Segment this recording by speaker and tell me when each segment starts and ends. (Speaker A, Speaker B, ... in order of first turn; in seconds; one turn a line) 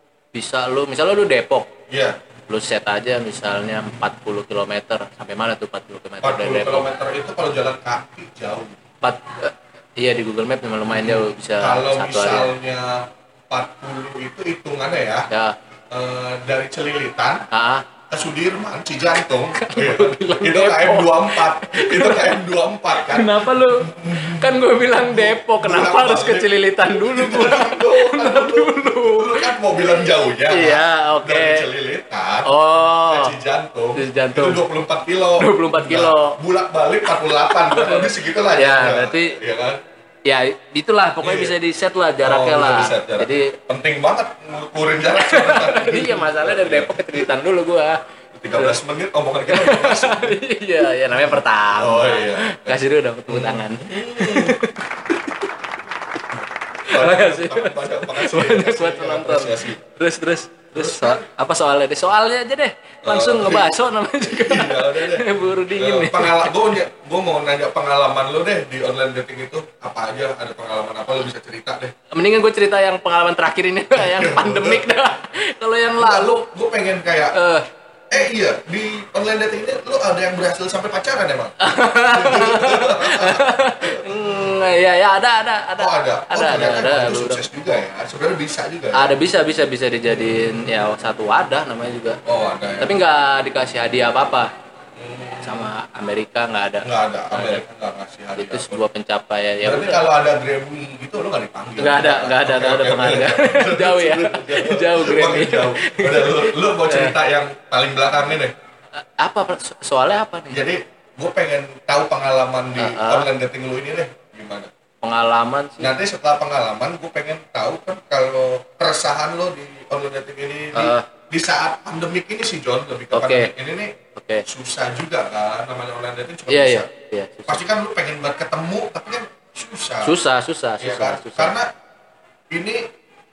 Speaker A: 0.3-1.7
Speaker B: 1.9-2.2
Speaker A: 2.5-6.9
Speaker B: 6.2-8.8
Speaker A: 9.0-12.5
Speaker B: 10.9-15.3
Speaker A: 15.3-15.6
Speaker B: 15.9-17.5
Speaker A: 17.5-17.9
Speaker B: 18.1-32.5
Speaker A: 19.6-22.4
Speaker A: 22.9-31.7
Speaker A: 32.5-33.4
Speaker B: 33.1-39.8
Speaker A: 34.0-34.6
Speaker A: 35.4-36.4
Speaker A: 37.5-39.4
Speaker A: 40.2-43.6
Speaker B: 41.2-41.5
Speaker B: 42.2-47.3
Speaker A: 45.1-48.0
Speaker B: 48.4-50.4
Speaker A: 48.5-48.8
Speaker A: 49.5-55.1
Speaker B: 51.1-54.6
Speaker A: 56.9-66.7
Speaker B: 56.9-59.8
Speaker B: 60.8-61.3
Speaker B: 63.0-71.9
Speaker A: 72.1-76.5
Speaker B: 74.0-74.9
Speaker B: 76.0-77.4
Speaker A: 77.3-77.7
Speaker B: 78.1-84.5
Speaker A: 81.6-87.5
Speaker B: 85.8-89.1
Speaker A: 88.9-92.2
Speaker B: 92.3-93.0
Speaker A: 92.8-94.5
Speaker B: 95.0-95.7
Speaker A: 95.4-97.6
Speaker B: 96.8-98.8
Speaker A: 98.3-100.1
Speaker B: 99.6-108.5
Speaker A: 101.8-107.2
Speaker A: 109.0-110.7
Speaker B: 110.5-114.7
Speaker A: 112.8-113.3
Speaker A: 115.0-115.9
Speaker B: 115.8-123.9
Speaker A: 120.7-121.1
Speaker A: 123.1-123.5
Speaker A: 124.2-124.5
Speaker B: 124.5-126.9
Speaker A: 126.5-127.6
Speaker B: 127.5-130.2
Speaker A: 130.0-131.6
Speaker B: 130.8-131.7
Speaker B: 132.5-132.9